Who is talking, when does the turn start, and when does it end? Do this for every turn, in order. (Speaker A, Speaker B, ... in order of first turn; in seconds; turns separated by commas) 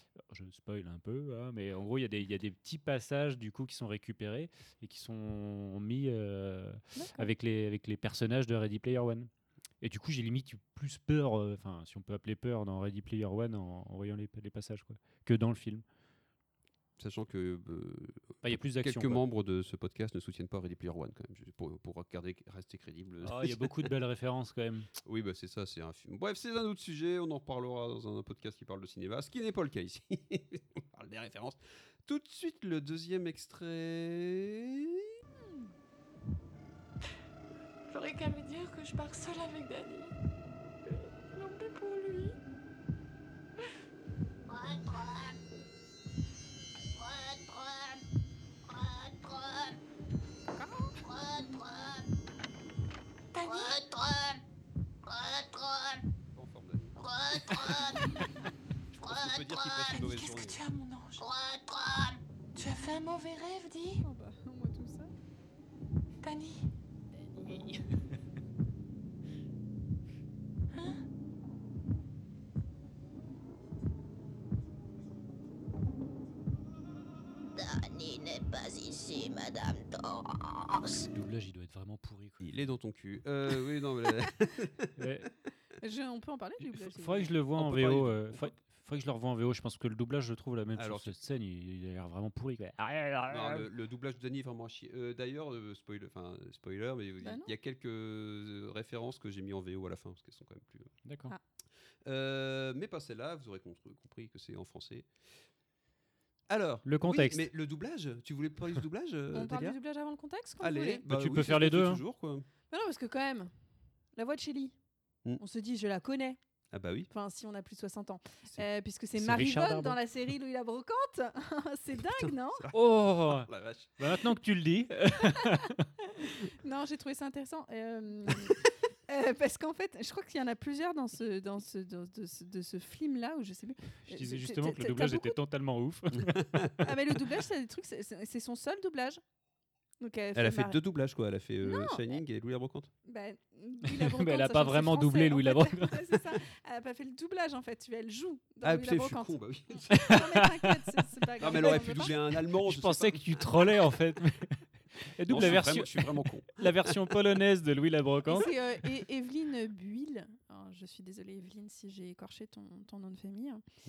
Speaker A: 0.2-9.3, Speaker B: 7.0-7.3, Speaker A: 9.8-15.8, Speaker C: 17.0-23.9, Speaker A: 18.4-19.2, Speaker A: 23.2-24.9, Speaker C: 25.0-35.1, Speaker B: 35.4-35.7, Speaker D: 37.9-40.1, Speaker D: 41.3-42.4, Speaker E: 44.5-45.3, Speaker E: 47.0-48.0, Speaker E: 48.7-49.7, Speaker B: 50.6-51.0, Speaker E: 51.0-52.0, Speaker D: 53.3-53.8, Speaker E: 53.4-54.4, Speaker E: 55.1-56.0, Speaker C: 56.3-57.0, Speaker E: 57.0-58.0, Speaker C: 58.9-60.6, Speaker E: 59.1-59.6, Speaker D: 59.9-61.3, Speaker E: 61.2-62.1, Speaker D: 62.5-64.0, Speaker B: 64.0-65.1, Speaker D: 66.2-66.7, Speaker D: 70.8-71.0, Speaker E: 77.8-81.0, Speaker A: 81.1-82.5, Speaker C: 82.4-84.9, Speaker A: 85.0-85.3, Speaker B: 85.8-87.3, Speaker A: 86.7-93.7, Speaker C: 87.6-88.5, Speaker C: 90.8-91.2, Speaker C: 93.3-100.9, Speaker B: 97.2-97.5, Speaker A: 101.0-101.3, Speaker C: 102.0-105.1, Speaker C: 106.5-109.8, Speaker A: 106.9-107.5, Speaker B: 109.3-111.0, Speaker C: 110.6-112.5, Speaker A: 111.1-112.0, Speaker B: 112.7-113.5, Speaker B: 114.2-114.8, Speaker B: 115.4-116.4, Speaker C: 116.7-117.1, Speaker B: 117.1-122.7, Speaker A: 119.2-120.0, Speaker C: 122.0-124.2, Speaker A: 122.7-125.9, Speaker B: 126.1-135.4, Speaker A: 134.1-136.6, Speaker C: 136.2-136.9, Speaker B: 136.8-139.2, Speaker B: 140.0-140.8, Speaker C: 140.3-142.9, Speaker B: 141.6-142.2, Speaker B: 143.1-152.2, Speaker A: 143.8-146.2, Speaker C: 148.6-150.3, Speaker A: 149.9-150.7, Speaker C: 151.4-153.6, Speaker A: 151.4-151.8, Speaker A: 152.6-158.5, Speaker C: 155.3-157.0, Speaker B: 158.3-163.6